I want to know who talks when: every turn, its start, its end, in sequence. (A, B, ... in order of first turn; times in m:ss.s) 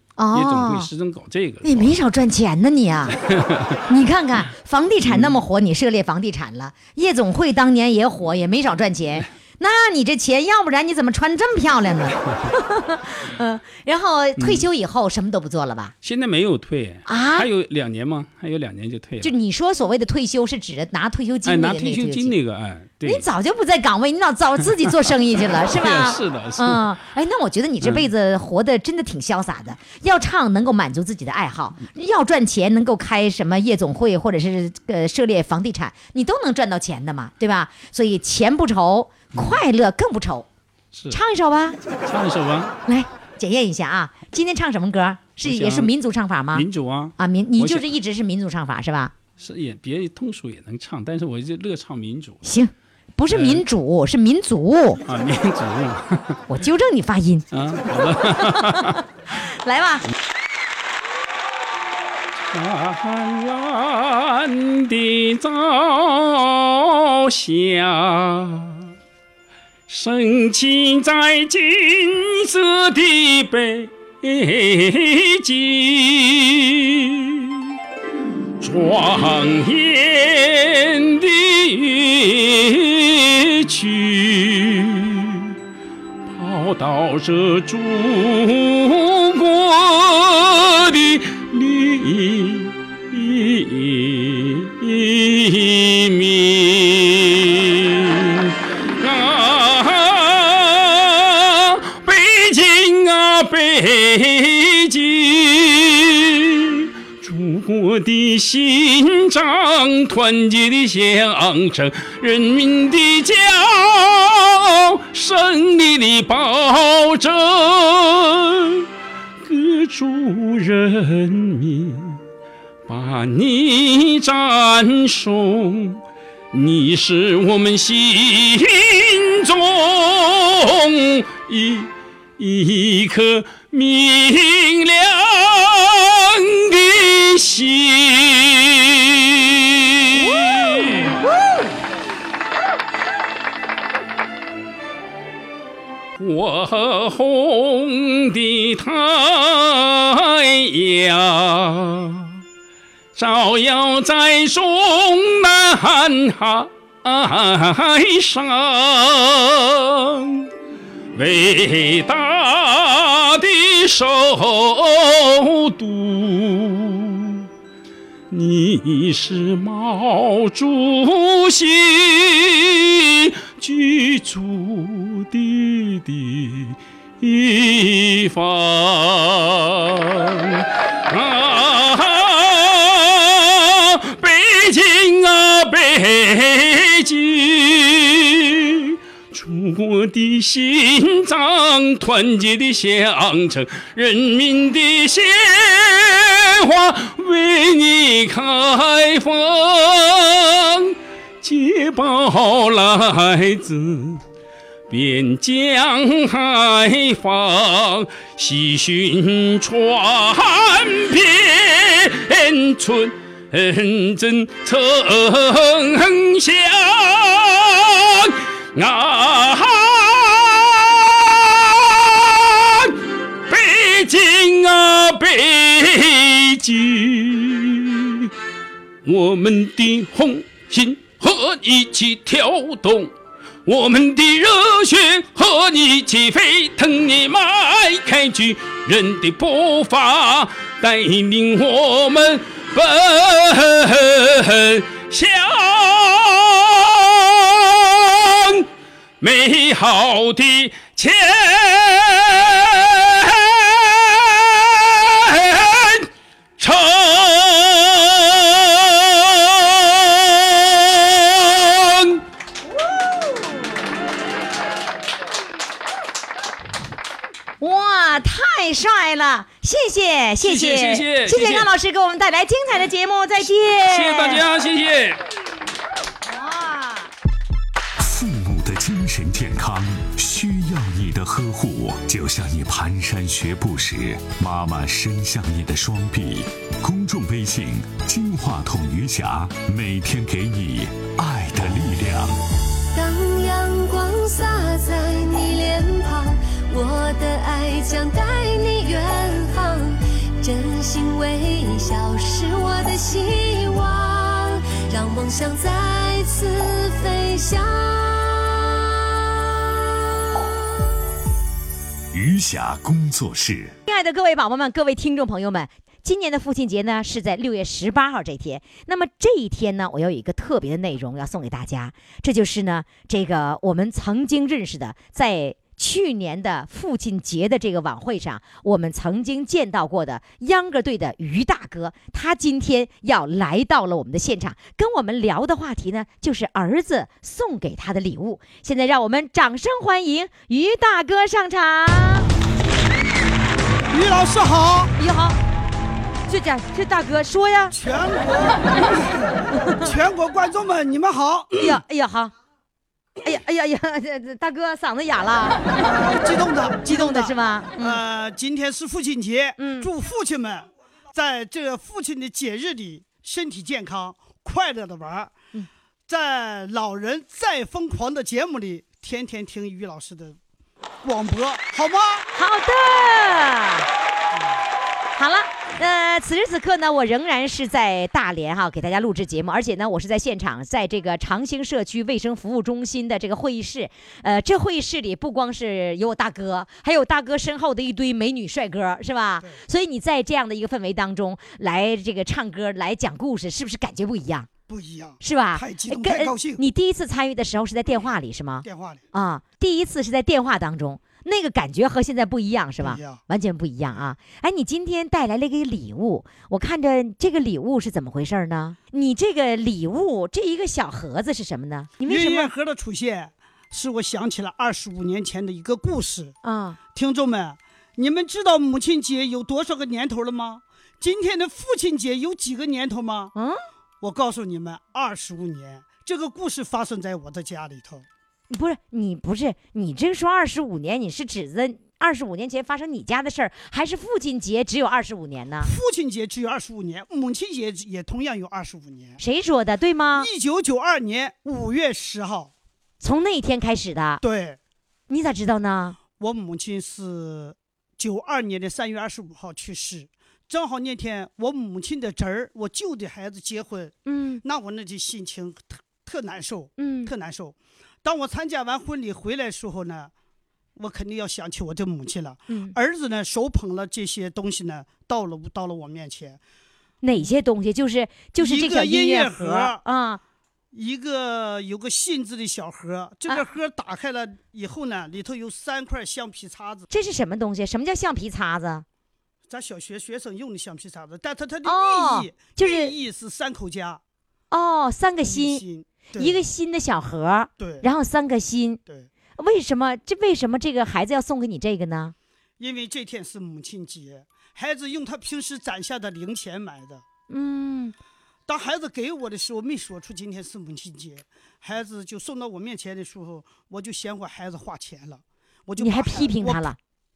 0:00.2-0:00.9 A
0:00.3-0:02.0 B
0:01.6-0:03.2 A
0:03.3-0:03.8 B
0:03.9-0:15.9 A
0:05.0-0:05.4 B
0:14.4-0:14.7 B
0:16.0-0:19.3 B
0:17.0-0:17.5 A
0:19.2-0:22.3 A
0:21.4-0:23.2 B
0:23.0-0:40.4 A
0:24.8-0:25.1 B
0:25.7-0:26.9 B
0:27.8-0:28.1 B
0:40.9-0:41.2 B
0:41.1-0:41.8 A
0:42.0-0:42.7 B
0:42.8-0:46.6 A
0:45.4-0:45.9 B
0:46.5-0:47.8 B
0:47.2-0:49.1 A
0:49.4-0:52.4 B
0:52.4-0:55.0 A
0:53.3-0:53.6 B
0:55.0-0:56.4 B
0:56.5-0:57.5 A
0:57.5-0:59.0 B
0:58.2-1:00.0 A
1:02.5-1:08.9 B
1:09.9-1:17.7 B
1:18.6-1:25.5 B
1:26.3-1:58.9 B
1:59.4-2:02.2 B
2:02.9-2:06.0 B
2:06.5-2:21.2 B
2:20.1-2:21.7 A
2:26.2-2:32.4 B
2:33.2-2:40.5 B
2:41.2-2:47.5 B
2:48.3-3:24.2 B
3:24.9-3:48.3 B
3:49.0-3:53.1 B
3:53.6-4:08.7 B
4:09.2-4:22.2 B
4:22.8-4:23.6 A
4:27.6-4:34.4 A
4:30.4-4:31.7 B
4:33.9-4:35.2 B
4:36.3-4:37.1 A
4:38.0-4:52.4 C
4:52.9-5:08.9 D
5:12.1-5:13.8 C
5:13.9-5:42.3 A
5:43.9-5:44.9 E
5:45.0-5:45.4 A
5:46.3-5:47.7 A
5:47.7-5:51.7 E
5:49.6-5:49.9 A
5:51.6-5:52.3 A
5:53.2-5:55.6 A
5:55.8-6:05.3 E
5:56.9-5:58.0 A
5:59.6-5:59.9 A
6:06.1-6:10.4 E
6:11.0-6:12.3 E
6:12.3-6:13.9 A
6:14.3-6:14.6 E
6:15.2-6:34.5 A
6:34.7-6:36.6 E
6:35.2-6:52.5 A
6:38.6-6:39.0 E
6:42.8-6:43.2 E
6:52.0-6:56.3 E
6:56.4-6:56.8 A
6:56.9-7:03.3 E
7:04.0-7:08.1 E
7:08.5-7:15.7 A
7:15.6-7:19.2 E
7:19.2-7:20.3 A
7:20.1-7:22.5 E
7:23.0-7:24.2 A
7:24.2-7:24.6 E
7:25.1-7:26.0 A
7:26.2-7:40.1 E
7:34.0-7:34.4 A
7:36.8-7:37.1 A
7:40.8-7:46.4 E
7:42.5-7:42.7 A
7:47.0-7:50.2 A
7:48.4-7:49.8 E
7:50.7-7:56.9 E
7:56.9-7:58.8 A
7:59.5-8:04.0 E
8:01.6-8:02.9 A
8:04.5-8:05.6 A
8:05.2-8:06.4 E
8:06.2-8:08.8 A
8:07.6-8:07.9 E
8:09.4-8:12.1 A
8:12.6-8:17.0 E
8:17.3-8:17.9 A
8:18.5-8:26.7 E
8:25.8-8:26.8 A